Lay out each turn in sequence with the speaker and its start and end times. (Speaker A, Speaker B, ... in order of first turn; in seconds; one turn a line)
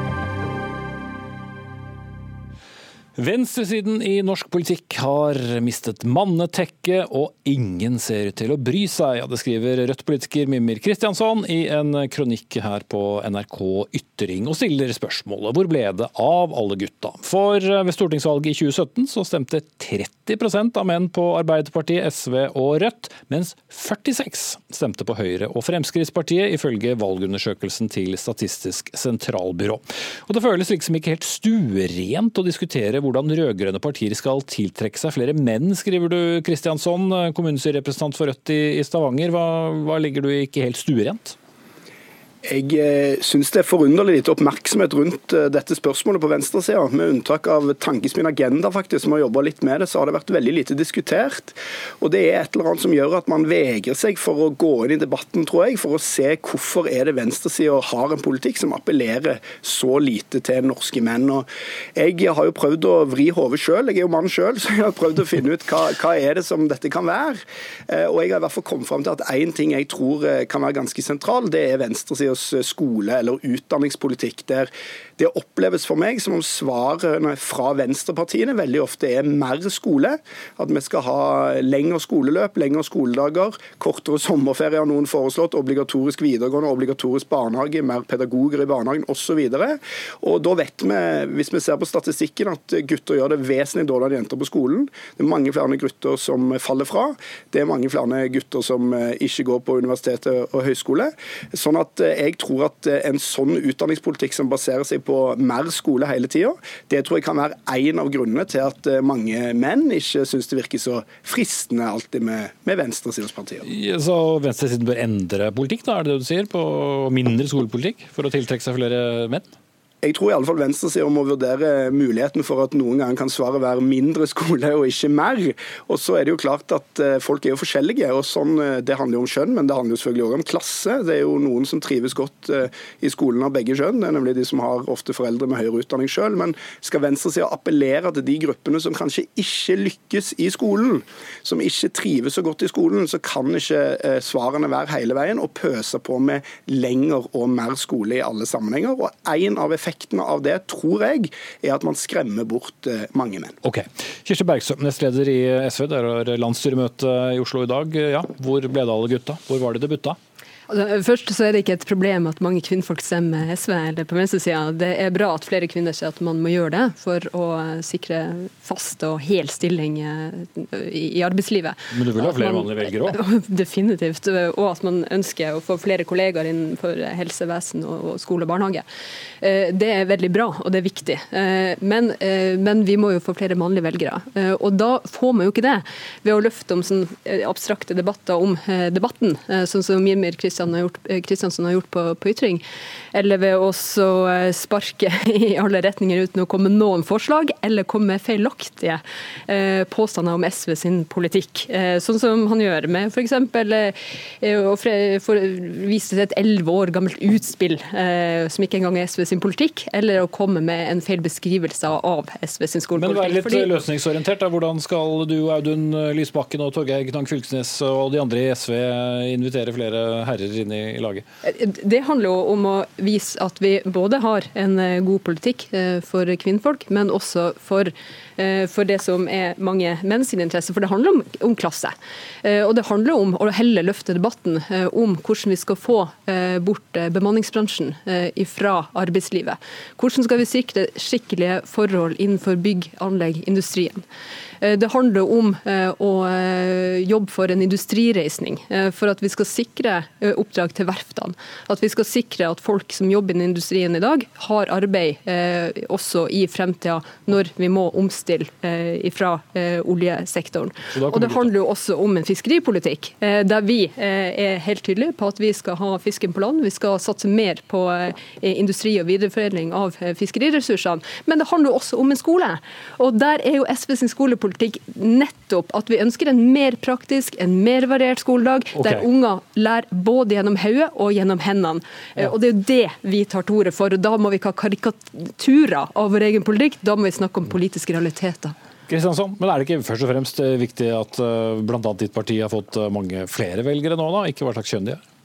Speaker A: 3.2-41.4
Speaker B: 42.5-113.7
Speaker A: 113.6-119.5
Speaker B: 120.0-153.5
Speaker A: 153.6-160.2
Speaker C: 160.7-178.8
Speaker A: 171.9-173.2
Speaker C: 179.4-192.6
Speaker C: 193.1-213.7
Speaker A: 212.9-221.2
Speaker C: 221.4-244.0
Speaker C: 244.6-288.5
Speaker A: 260.9-261.5
Speaker A: 278.7-279.1
Speaker A: 288.9-295.0